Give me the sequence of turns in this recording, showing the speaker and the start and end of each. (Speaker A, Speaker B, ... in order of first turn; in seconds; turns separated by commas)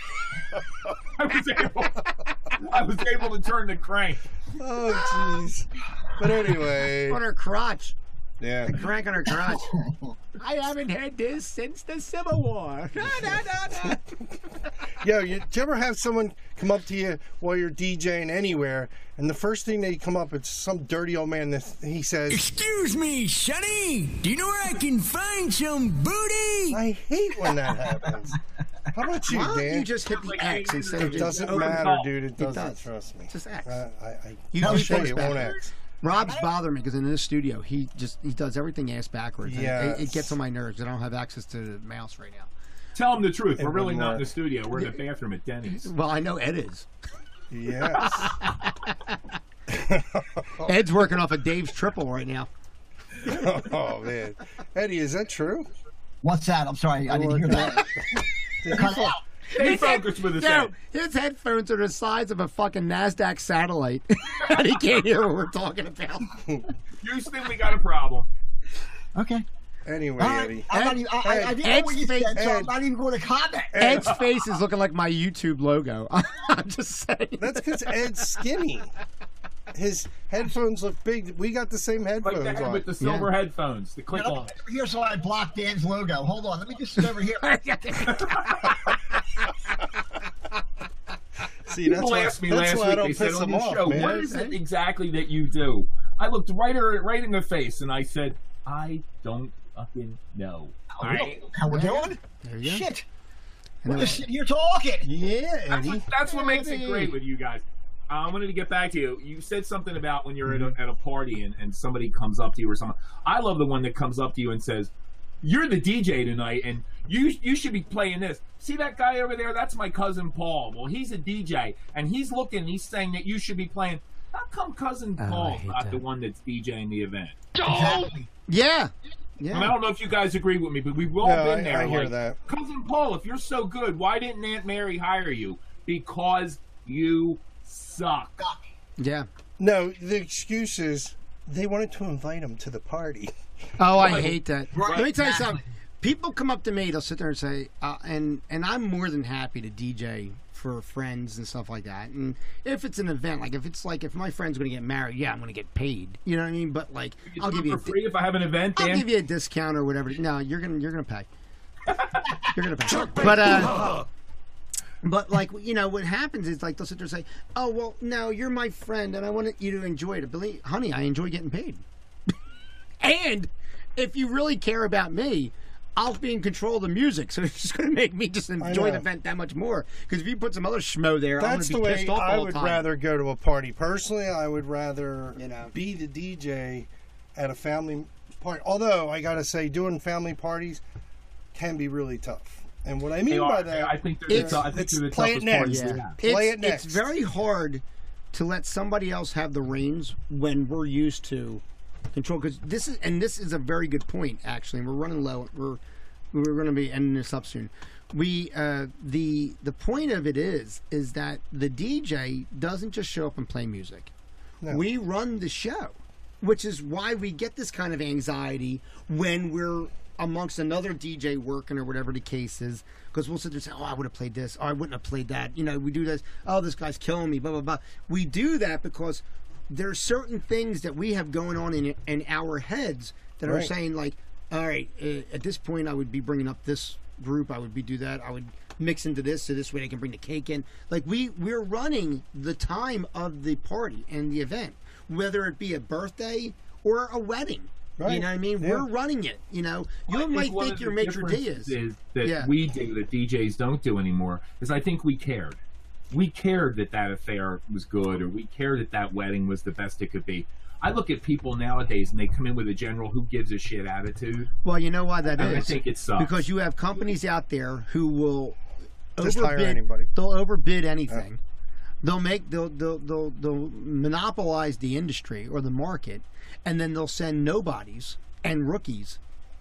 Speaker A: 1.1-4.2, Speaker B: 4.6-7.2, Speaker C: 7.0-8.0, Speaker B: 8.4-8.8, Speaker C: 8.7-9.7, Speaker D: 9.3-10.2, Speaker C: 10.4-14.2, Speaker B: 13.0-13.9, Speaker B: 15.0-22.4, Speaker E: 22.3-26.8, Speaker B: 26.7-28.4, Speaker D: 27.5-28.3, Speaker B: 28.9-29.9, Speaker C: 29.3-33.8, Speaker A: 30.1-32.1, Speaker B: 31.0-35.7, Speaker C: 34.5-42.5, Speaker D: 34.6-35.6, Speaker D: 36.2-36.5, Speaker B: 39.4-40.4, Speaker A: 43.0-45.9, Speaker B: 43.6-44.3, Speaker C: 44.7-45.0, Speaker C: 45.7-46.9, Speaker B: 47.5-48.3, Speaker C: 48.0-49.2, Speaker B: 49.7-50.8, Speaker C: 50.6-52.5, Speaker B: 53.2-55.7, Speaker D: 56.2-57.9, Speaker B: 57.1-59.2, Speaker D: 58.7-59.2, Speaker C: 58.7-66.5, Speaker A: 59.5-60.7, Speaker A: 67.0-68.3, Speaker D: 69.2-69.5, Speaker B: 69.9-70.7, Speaker D: 70.2-73.8, Speaker C: 70.7-72.5, Speaker B: 71.2-71.7, Speaker B: 72.3-72.7, Speaker B: 73.7-74.2, Speaker C: 73.8-78.4, Speaker B: 77.4-78.9, Speaker B: 79.7-82.9, Speaker A: 82.2-84.5, Speaker C: 83.0-83.3, Speaker D: 84.1-87.5, Speaker C: 87.0-89.8, Speaker A: 88.1-88.8, Speaker B: 91.7-94.3, Speaker A: 91.8-101.4, Speaker C: 93.9-94.6, Speaker D: 100.9-103.1, Speaker C: 101.7-102.9, Speaker C: 103.8-104.2, Speaker D: 103.9-105.1, Speaker B: 105.0-107.1, Speaker A: 105.7-127.5, Speaker C: 106.3-106.8, Speaker C: 125.2-126.0, Speaker C: 127.6-129.8, Speaker D: 127.6-128.3, Speaker A: 129.5-138.4, Speaker B: 131.2-132.4, Speaker C: 139.0-139.3, Speaker B: 139.6-143.3, Speaker C: 143.8-158.0, Speaker A: 144.0-145.1, Speaker D: 144.7-145.6, Speaker A: 157.3-159.1, Speaker C: 158.8-161.3, Speaker A: 161.9-162.3, Speaker C: 162.5-163.9, Speaker D: 162.9-164.0, Speaker C: 165.0-171.8, Speaker C: 173.0-182.8, Speaker B: 178.6-179.1, Speaker B: 181.4-190.8, Speaker C: 185.4-185.7, Speaker B: 191.5-197.1, Speaker A: 193.3-196.2, Speaker C: 194.3-194.7, Speaker C: 195.6-201.6, Speaker C: 202.1-205.8, Speaker C: 206.3-214.1, Speaker C: 214.7-252.5, Speaker B: 233.4-233.7, Speaker B: 248.0-248.9, Speaker A: 250.1-255.6, Speaker A: 256.1-264.5, Speaker C: 264.6-268.6, Speaker A: 265.3-266.4, Speaker C: 269.2-271.4, Speaker B: 269.2-270.1, Speaker C: 272.0-279.2